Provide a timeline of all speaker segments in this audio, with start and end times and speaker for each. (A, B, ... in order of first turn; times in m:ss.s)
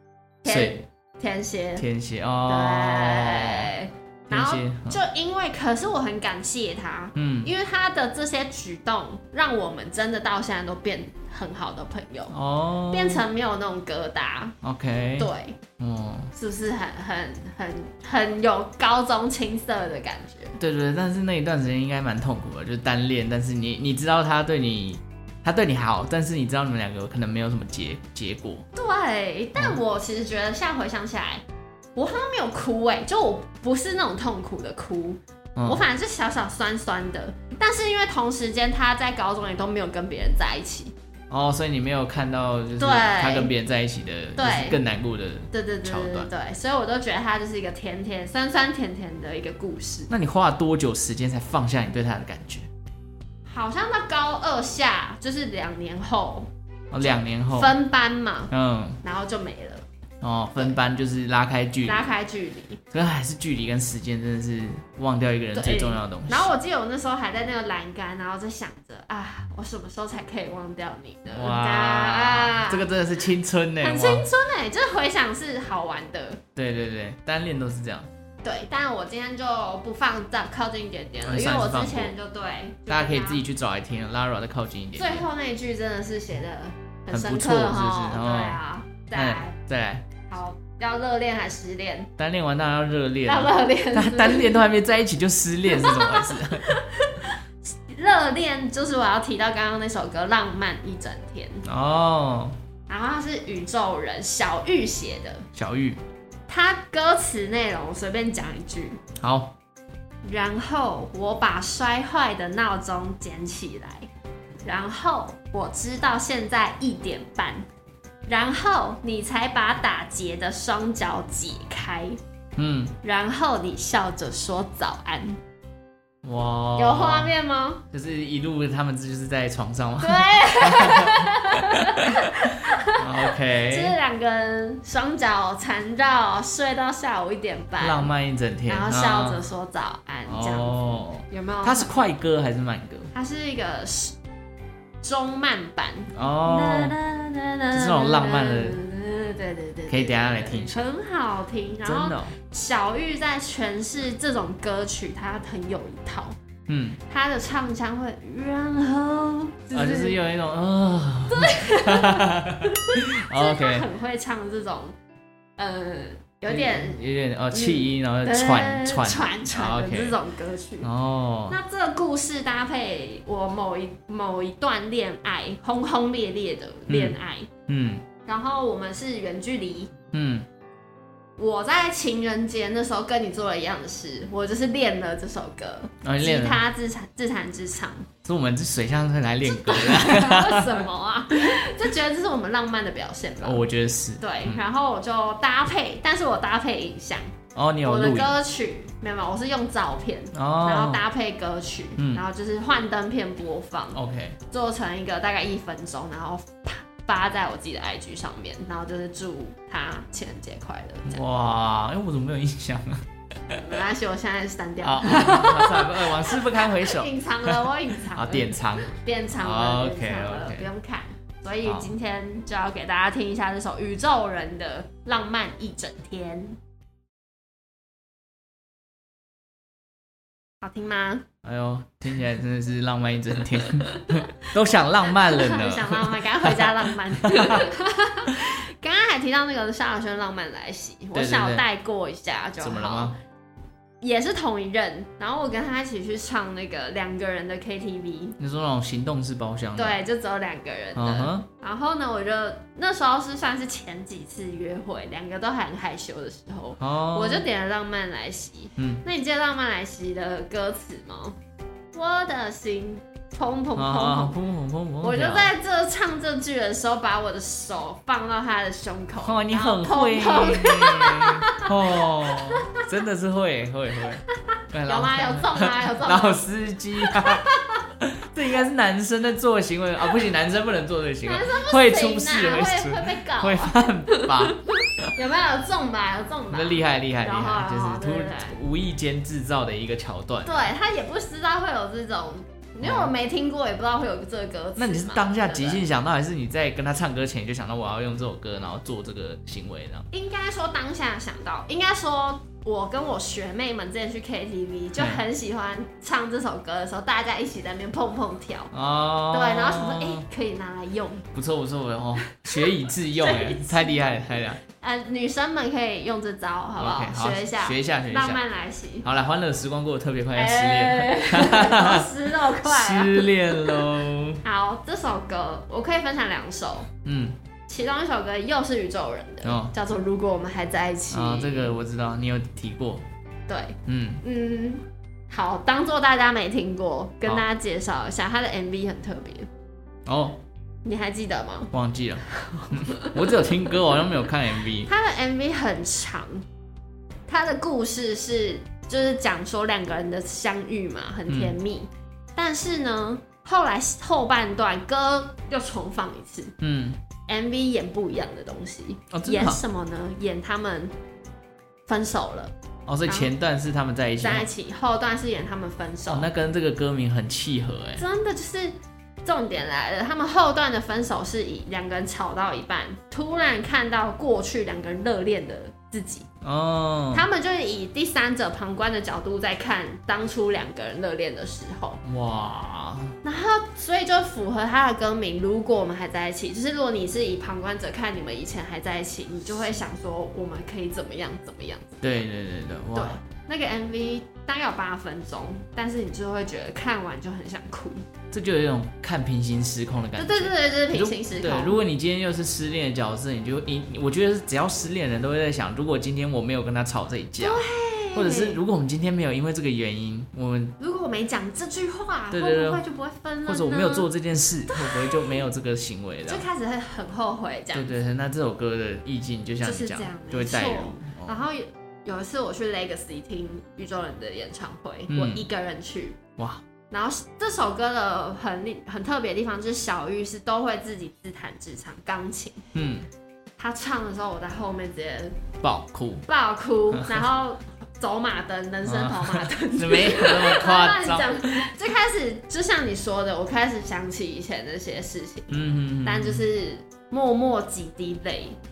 0:00.4-0:01.8 A
0:00.4-0:00.8 B
0:01.8-0:03.7 B
0:02.4-0:12.3 A
0:04.3-0:05.0 B
0:07.2-0:07.5 B
0:12.3-0:13.2 B
0:12.9-0:14.6 A
0:14.6-0:16.3 B
0:15.2-0:15.6 A
0:16.3-0:20.6 A
0:20.6-0:28.6 B
0:28.7-0:31.4 A
0:31.9-0:40.9 A
0:35.6-0:35.8 B
0:41.3-0:46.3 B
0:42.8-0:43.5 A
0:44.4-0:44.8 A
0:45.5-0:50.1 A
0:50.1-0:52.7 B
0:53.5-0:56.5 A
0:56.9-0:57.7 B
0:57.0-0:59.8 A
0:58.5-0:59.0 B
1:00.2-1:02.1 B
1:01.8-1:02.8 A
1:02.9-1:06.5 B
1:05.5-1:12.9 A
1:11.3-1:14.3 B
1:13.8-1:16.4 A
1:16.5-1:18.1 B
1:18.4-1:23.4 A
1:21.2-1:22.1 B
1:22.9-1:25.2 B
1:24.9-1:29.5 A
1:27.1-1:28.6 B
1:29.1-1:30.0 B
1:30.3-1:32.1 A
1:32.2-1:36.8 B
1:33.2-1:34.6 A
1:35.7-1:41.6 A
1:41.6-1:42.5 B
1:42.9-1:45.4 A
1:45.5-1:46.0 B
1:46.5-1:49.0 A
1:49.2-1:49.5 B
1:50.2-1:54.1 A
1:54.6-1:57.7 A
1:58.3-2:02.2 A
2:02.6-2:02.9 B
2:03.0-2:05.4 A
2:06.2-2:07.3 B
2:06.8-2:07.8 A
2:07.9-2:13.9 B
2:10.0-2:18.1 A
2:17.8-2:19.4 B
2:18.7-2:21.9 A
2:20.3-2:23.1 B
2:23.1-2:24.2 A
2:25.0-2:36.4 A
2:26.1-2:27.0 B
2:27.7-2:28.8 B
2:29.9-2:30.9 B
2:31.8-2:32.4 B
2:36.7-2:37.0 B
2:37.0-2:40.2 A
2:39.7-2:43.9 B
2:41.3-2:44.9 A
2:45.6-2:47.0 A
2:46.5-2:50.2 B
2:47.5-2:50.9 A
2:50.8-2:51.6 B
2:51.5-2:57.5 A
2:56.9-2:58.0 B
2:58.2-2:59.9 A
3:00.1-3:00.4 B
3:01.4-3:08.1 A
3:06.0-3:06.6 B
3:08.2-3:10.8 B
3:09.4-3:13.6 A
3:13.4-3:14.6 B
3:14.2-3:17.3 A
3:17.5-3:18.3 B
3:17.8-3:24.0 A
3:20.3-3:21.0 B
3:22.0-3:22.2 B
3:23.9-3:24.4 B
3:24.5-3:31.2 A
3:31.0-3:33.6 B
3:33.5-3:46.6 A
3:34.8-3:40.7 B
3:41.6-3:41.9 B
3:50.6-3:51.2 A
3:51.4-3:57.7 B
3:53.8-4:03.1 A
4:01.1-4:01.6 B
4:02.6-4:03.1 B
4:04.0-4:08.4 A
4:08.4-4:10.0 B
4:09.8-4:21.4 A
4:11.0-4:11.5 B
4:16.8-4:17.4 B
4:18.8-4:19.0 B
4:21.9-4:24.4 A
4:23.8-4:25.5 B
4:25.0-4:32.8 A
4:29.2-4:37.5 B
4:34.5-4:36.5 A
4:37.0-4:37.8 A
4:38.0-4:45.1 B
4:41.2-4:48.6 A
4:46.5-4:50.7 B
4:50.4-4:55.8 A
4:52.8-4:53.1 B
4:54.8-5:00.1 B
5:00.1-5:08.7 A
5:05.0-5:05.2 B
5:08.7-5:10.2 B
5:09.3-5:11.3 A
5:11.3-5:14.6 B
5:12.4-5:14.0 A
5:14.7-5:19.1 A
5:16.8-5:18.4 B
5:19.0-5:24.4 B
5:20.3-5:23.9 A
5:24.4-5:26.9 A
5:27.0-5:27.4 B
5:27.7-5:31.8 A
5:29.4-5:29.7 B
5:31.1-5:33.0 B
5:33.5-5:39.5 A
5:33.8-5:34.2 B
5:40.1-5:40.4 B
5:40.8-5:41.7 A
5:41.7-5:44.9 B
5:42.4-5:43.7 A
5:44.8-5:46.4 A
5:47.3-5:56.5 A
5:51.3-5:51.5 B
5:56.6-5:57.0 B
5:57.3-6:00.9 A
5:59.1-5:59.6 B
6:01.9-6:02.5 A
6:02.9-6:04.5 B
6:03.0-6:03.3 A
6:04.2-6:06.3 A
6:06.1-6:08.0 B
6:08.0-6:16.3 A
6:16.4-6:17.3 B
6:17.1-6:22.0 A
6:22.0-6:23.1 B
6:23.2-6:32.0 A
6:32.0-6:33.2 B
6:32.9-6:38.0 A
6:38.3-6:50.7 B
6:40.2-6:41.8 A
6:47.4-6:48.6 A
6:50.8-6:54.1 A
6:52.3-6:52.8 B
6:53.4-6:56.4 B
6:54.7-6:55.4 A
6:56.2-6:58.0 A
6:57.7-7:01.4 B
6:59.6-7:06.2 A
7:05.1-7:05.4 B
7:06.4-7:06.6 B
7:06.9-7:12.6 A
7:12.7-7:13.0 B
7:13.6-7:15.4 A
7:15.6-7:16.2 B
7:16.3-7:28.6 A
7:18.8-7:21.7 B
7:25.5-7:26.4 B